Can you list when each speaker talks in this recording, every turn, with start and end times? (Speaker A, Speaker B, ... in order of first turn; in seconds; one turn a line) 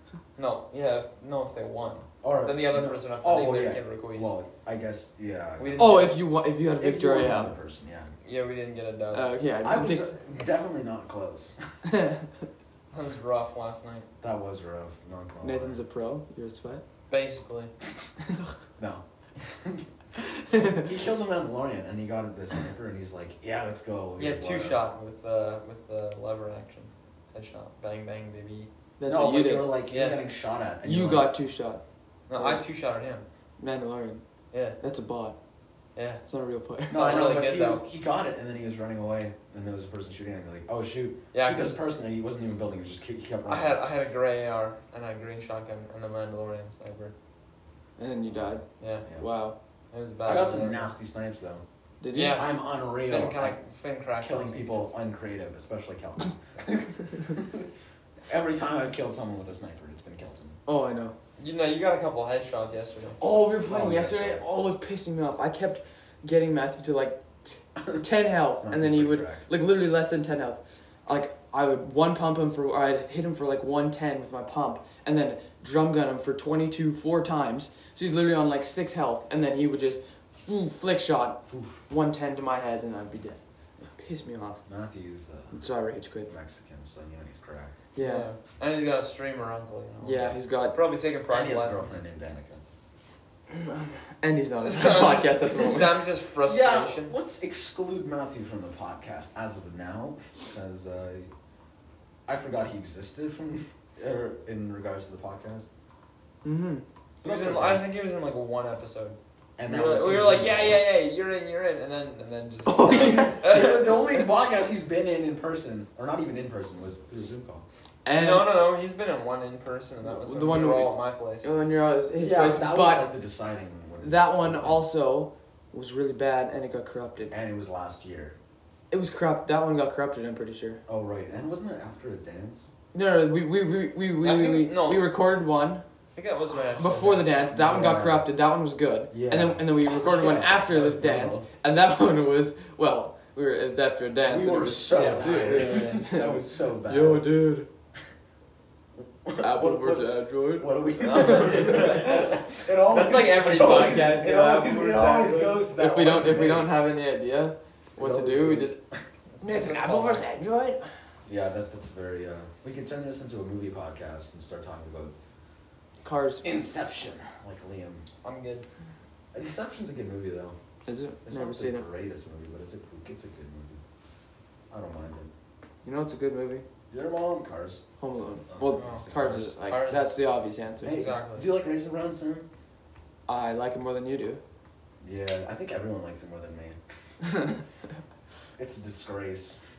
Speaker A: 0.3-4.3
Speaker B: 2.2-8.1
Speaker A: 5.6-6.2
Speaker C: 5.8-7.5
Speaker A: 8.2-9.3
Speaker C: 9.1-10.1
Speaker B: 9.6-11.6
Speaker C: 11.8-12.3
Speaker A: 12.9-14.1
Speaker B: 14.2-15.8
Speaker C: 15.4-16.8
Speaker A: 17.1-17.7
Speaker C: 18.2-18.5
Speaker B: 18.8-19.9
Speaker B: 20.5-24.8
Speaker C: 20.5-20.8
Speaker A: 24.2-28.7
Speaker C: 29.0-29.7
Speaker B: 29.1-31.3
Speaker A: 29.9-30.2
Speaker C: 30.8-32.6
Speaker A: 32.3-33.2
Speaker C: 33.6-34.2
Speaker A: 34.5-34.8
Speaker C: 34.8-35.4
Speaker A: 35.9-36.2
Speaker C: 36.2-37.1
Speaker B: 36.9-43.8
Speaker A: 36.9-37.8
Speaker A: 41.3-41.8
Speaker A: 43.5-47.1
Speaker C: 48.0-48.6
Speaker B: 48.3-49.3
Speaker A: 48.8-49.0
Speaker C: 49.2-49.6
Speaker A: 49.9-50.9
Speaker B: 50.2-51.6
Speaker C: 52.0-52.4
Speaker A: 52.1-54.9
Speaker B: 52.3-53.6
Speaker B: 54.2-57.7
Speaker B: 58.3-60.6
Speaker C: 60.6-61.1
Speaker A: 61.4-63.2
Speaker C: 63.2-83.4
Speaker B: 63.6-64.4
Speaker B: 68.6-69.5
Speaker B: 81.5-81.8
Speaker C: 83.9-84.6
Speaker B: 84.7-85.6
Speaker C: 85.5-86.3
Speaker B: 86.2-87.7
Speaker C: 87.9-88.3
Speaker A: 88.0-92.0
Speaker C: 90.0-90.8
Speaker B: 91.3-92.6
Speaker C: 93.5-96.1
Speaker A: 94.6-97.1
Speaker B: 96.5-101.3
Speaker B: 102.2-105.7
Speaker C: 106.4-106.8
Speaker B: 107.2-107.8
Speaker A: 107.2-114.3
Speaker B: 109.6-110.9
Speaker C: 112.7-113.4
Speaker B: 112.8-117.6
Speaker C: 118.0-118.6
Speaker A: 118.1-121.5
Speaker C: 120.0-123.1
Speaker B: 122.2-124.8
Speaker C: 124.0-127.3
Speaker B: 127.3-128.3
Speaker C: 128.9-130.8
Speaker B: 130.9-132.7
Speaker C: 132.9-135.8
Speaker A: 134.2-135.1
Speaker A: 136.1-137.3
Speaker C: 136.8-147.7
Speaker B: 137.4-138.3
Speaker B: 139.1-141.5
Speaker B: 144.2-147.3
Speaker A: 144.9-145.9
Speaker B: 149.2-156.7
Speaker C: 149.4-151.5
Speaker A: 151.0-152.3
Speaker A: 152.8-155.7
Speaker C: 155.7-158.8
Speaker B: 158.0-159.0
Speaker A: 159.4-160.2
Speaker C: 159.4-160.9
Speaker B: 161.2-165.1
Speaker C: 166.0-166.4
Speaker B: 166.4-168.1
Speaker A: 168.2-168.7
Speaker B: 169.3-170.6
Speaker C: 170.8-171.8
Speaker B: 171.2-173.8
Speaker B: 174.7-175.3
Speaker C: 175.8-176.7
Speaker B: 176.9-177.8
Speaker C: 178.0-181.0
Speaker B: 178.5-179.6
Speaker A: 178.8-179.1
Speaker A: 179.6-180.2
Speaker B: 180.8-182.5
Speaker A: 180.8-181.5
Speaker C: 183.3-184.4
Speaker B: 185.0-186.8
Speaker B: 188.6-189.6